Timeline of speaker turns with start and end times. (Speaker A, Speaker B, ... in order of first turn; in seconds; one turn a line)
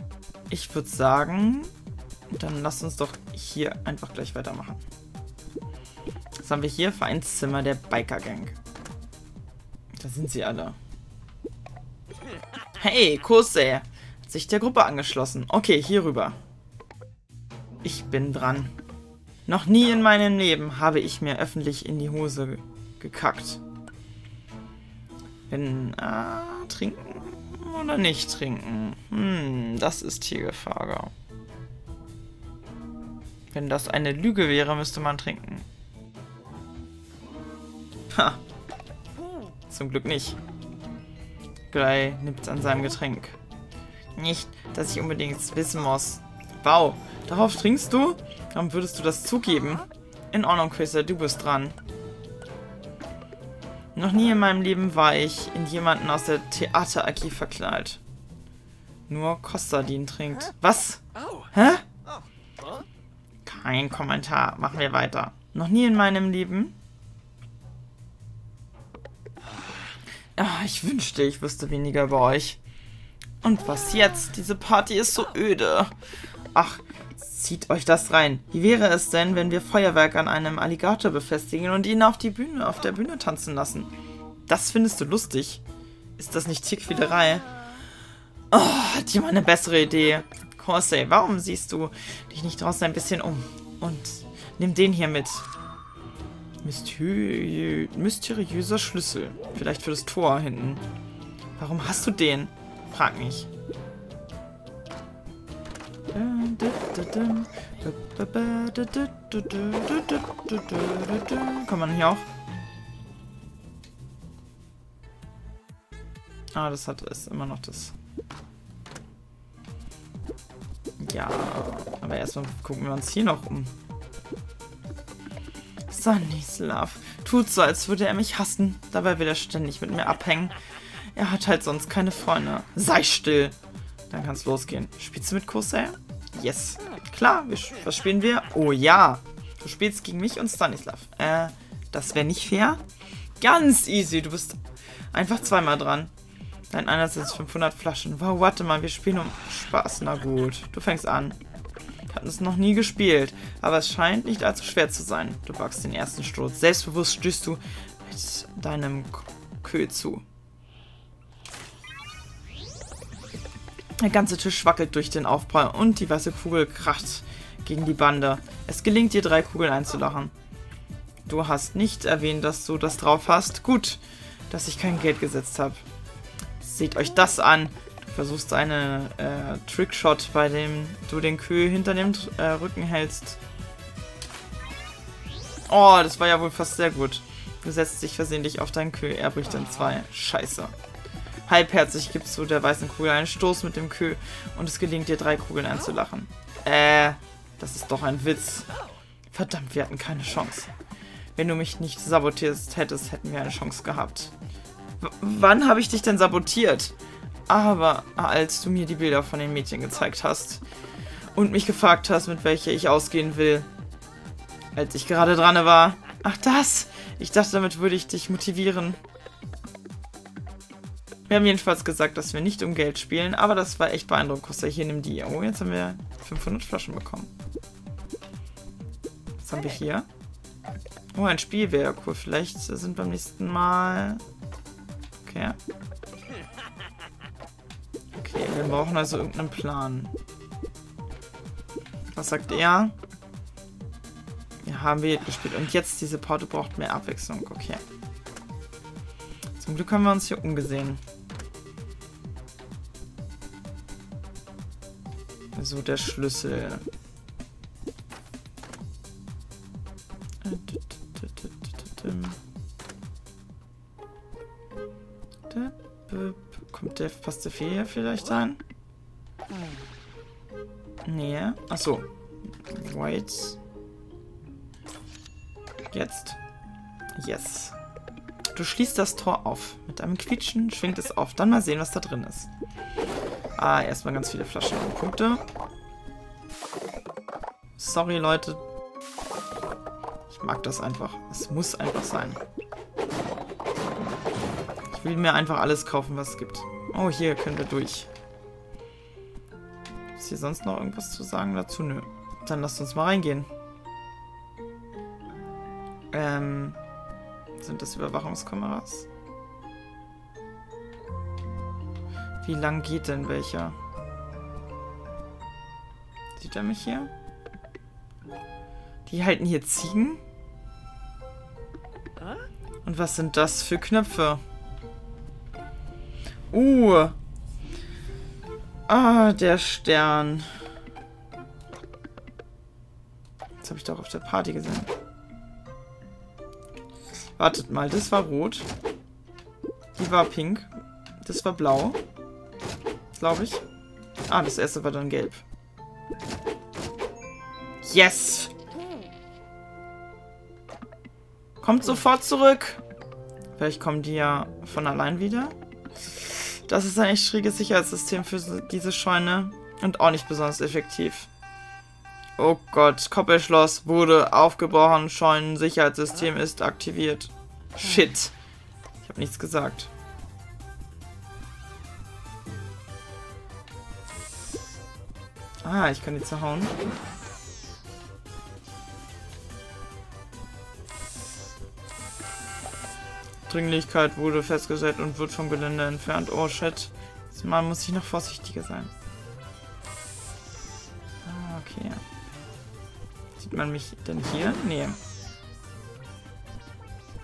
Speaker A: 0.5-1.7
Speaker A: 2.3-4.8
Speaker A: 6.4-8.6
Speaker A: 10.0-10.8
Speaker A: 12.8-16.4
Speaker A: 17.8-18.8
Speaker A: 19.5-23.6
Speaker A: 25.5-31.1
Speaker A: 33.5-35.7
Speaker A: 38.1-38.4
Speaker A: 39.7-40.4
Speaker A: 41.7-43.4
Speaker A: 44.1-51.8
Speaker A: 54.0-58.0
Speaker A: 59.1-61.9
Speaker A: 63.5-66.8
Speaker A: 70.4-72.6
Speaker A: 73.4-75.9
Speaker A: 76.5-83.9
Speaker A: 84.5-85.6
Speaker A: 86.2-87.5
Speaker A: 88.5-95.5
Speaker A: 96.6-100.8
Speaker A: 101.6-103.5
Speaker A: 106.1-112.2
Speaker A: 116.5-118.0
Speaker A: 121.0-123.7
Speaker A: 125.9-130.6
Speaker A: 131.1-133.6
Speaker A: 134.1-142.8
Speaker A: 143.4-144.6
Speaker A: 145.1-146.1
Speaker A: 146.7-151.4
Speaker A: 152.1-160.2
Speaker A: 164.0-170.3
Speaker A: 171.3-175.8
Speaker A: 176.6-183.4
Speaker A: 185.7-190.7
Speaker A: 191.5-198.7
Speaker A: 199.3-200.7
Speaker A: 201.3-204.3
Speaker A: 205.0-206.9
Speaker A: 207.5-210.6
Speaker A: 211.3-213.7
Speaker A: 214.8-219.0
Speaker A: 221.3-227.3
Speaker A: 229.4-230.1
Speaker A: 231.2-234.2
Speaker A: 235.2-235.6
Speaker A: 238.1-240.1
Speaker A: 242.1-243.0
Speaker A: 244.6-247.8
Speaker A: 249.6-251.0
Speaker A: 255.6-256.8
Speaker A: 260.4-262.4
Speaker A: 265.5-268.6
Speaker A: 271.1-272.1
Speaker A: 272.7-273.6
Speaker A: 275.9-276.4
Speaker A: 277.2-277.8
Speaker A: 278.5-282.5
Speaker A: 283.6-285.4
Speaker A: 287.8-288.6
Speaker A: 290.3-292.4
Speaker A: 294.9-298.1
Speaker A: 300.1-303.5
Speaker A: 306.1-306.8
Speaker A: 307.6-309.1
Speaker A: 312.4-313.8
Speaker A: 316.4-317.1
Speaker A: 319.1-320.2
Speaker A: 322.9-324.4
Speaker A: 326.5-327.2
Speaker A: 328.9-330.5
Speaker A: 333.6-334.9
Speaker A: 337.4-338.7
Speaker A: 339.9-340.7
Speaker A: 341.2-342.0
Speaker A: 343.1-343.6
Speaker A: 344.3-345.4
Speaker A: 347.8-348.5
Speaker A: 351.6-352.8
Speaker A: 353.6-355.6
Speaker A: 356.6-361.3
Speaker A: 362.4-368.3
Speaker A: 369.0-369.9
Speaker A: 375.6-376.7
Speaker A: 383.5-388.9
Speaker A: 391.2-392.0
Speaker A: 393.4-395.0